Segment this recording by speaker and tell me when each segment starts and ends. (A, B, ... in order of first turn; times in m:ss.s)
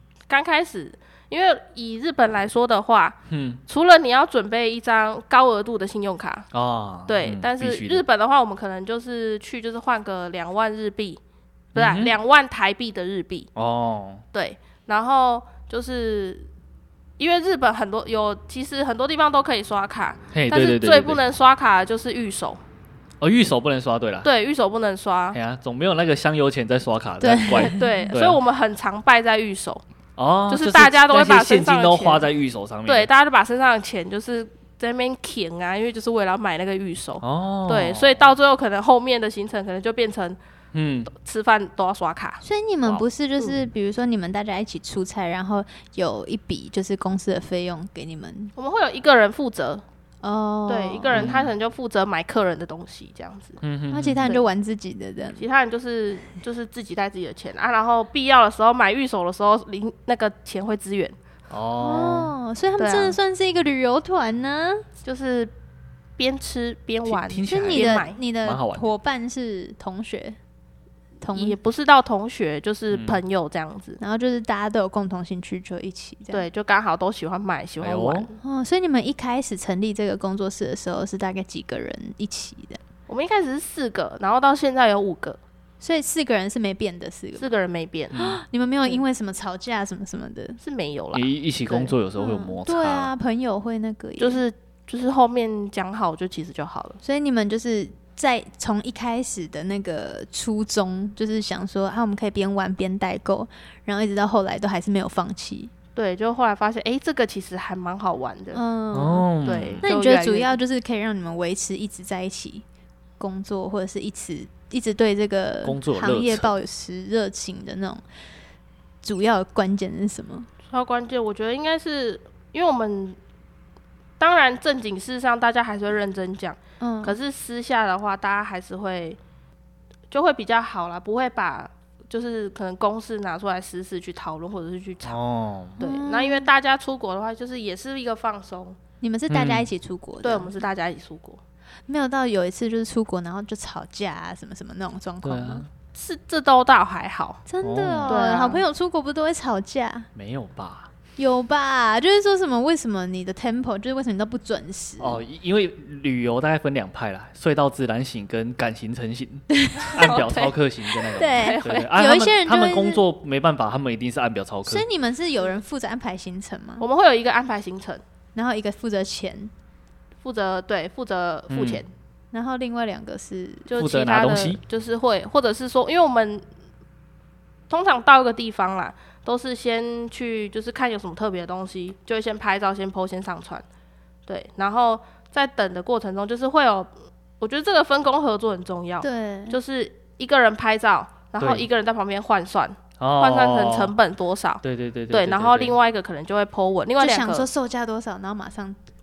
0:00.3-0:06.5 A
0:03.3-0:03.6 B
0:06.5-0:08.0 B
0:07.1-0:11.2 A
0:11.7-0:12.2 B
0:11.7-0:13.5 A
0:13.6-0:14.2 B
0:14.3-0:16.5 A
0:17.2-0:22.6 A
0:20.3-0:21.2 B
0:23.2-0:24.3 B
0:24.2-0:25.4 A
0:25.3-0:28.4 B
0:27.2-0:27.8 C
0:27.7-0:29.8 A
0:30.2-0:33.1 B
0:30.5-0:32.3 A
0:32.8-0:40.4 A
0:37.2-0:38.2 B
0:40.7-0:41.1 B
0:41.1-0:42.4 A
0:42.4-0:48.5 C
0:48.6-0:49.8 A
0:50.2-0:51.3 C
0:50.7-0:53.6 A
0:51.1-0:51.5 B
0:53.6-0:54.3 B
0:53.9-0:55.4 C
0:55.4-1:01.2 A
1:01.5-1:02.3 B
1:01.8-1:04.8 C
1:02.8-1:03.2 A
1:05.0-1:05.5 A
1:06.2-1:08.2 A
1:07.0-1:08.8 B
1:07.5-1:10.4 C
1:11.2-1:11.6 C
1:11.3-1:14.0 A
1:12.9-1:13.2 B
1:14.0-1:16.4 C
1:16.3-1:18.4 A
1:17.8-1:18.3 B
1:18.4-1:22.8 C
1:23.1-1:25.4 A
1:25.8-1:27.5 C
1:27.4-1:28.2 A
1:28.1-1:28.4 B
1:28.1-1:30.6 C
1:30.6-1:31.9 A
1:31.1-1:33.1 B
1:31.7-1:34.4 C
1:34.2-1:37.0 A
1:37.0-1:45.7 C
1:46.0-1:48.6 A
1:48.5-1:52.6 C
1:48.9-1:49.8 B
1:49.4-1:50.6 A
1:53.2-1:58.0 C
1:55.6-1:56.5 B
1:59.0-2:00.5 C
2:00.7-2:03.2 A
2:04.2-2:09.2 A
2:06.8-2:07.2 C
2:10.1-2:15.2 A
2:15.0-2:15.8 B
2:15.8-2:16.5 C
2:15.8-2:18.8 A
2:19.0-2:20.6 C
2:19.3-2:19.7 B
2:20.2-2:21.4 A
2:21.9-2:25.6 C
2:25.2-2:25.7 B
2:25.9-2:27.4 A
2:27.5-2:30.1 C
2:27.6-2:28.2 B
2:28.0-2:28.6 A
2:30.1-2:30.9 B
2:31.2-2:35.2 C
2:35.0-2:44.8 B
2:39.5-2:40.0 C
2:39.9-2:40.6 A
2:41.1-2:41.9 A
2:41.1-2:43.0 C
2:44.7-2:46.8 C
2:46.8-2:48.0 A
2:48.3-2:49.5 C
2:50.2-2:51.9 A
2:51.5-2:51.8 B
2:52.3-2:53.7 C
2:53.7-2:56.4 A
2:53.8-2:54.6 B
2:57.7-3:03.6 A
3:04.3-3:17.5 A
3:09.0-3:09.6 C
3:11.4-3:11.7 B
3:13.0-3:13.9 B
3:14.6-3:15.8 B
3:17.0-3:18.8 C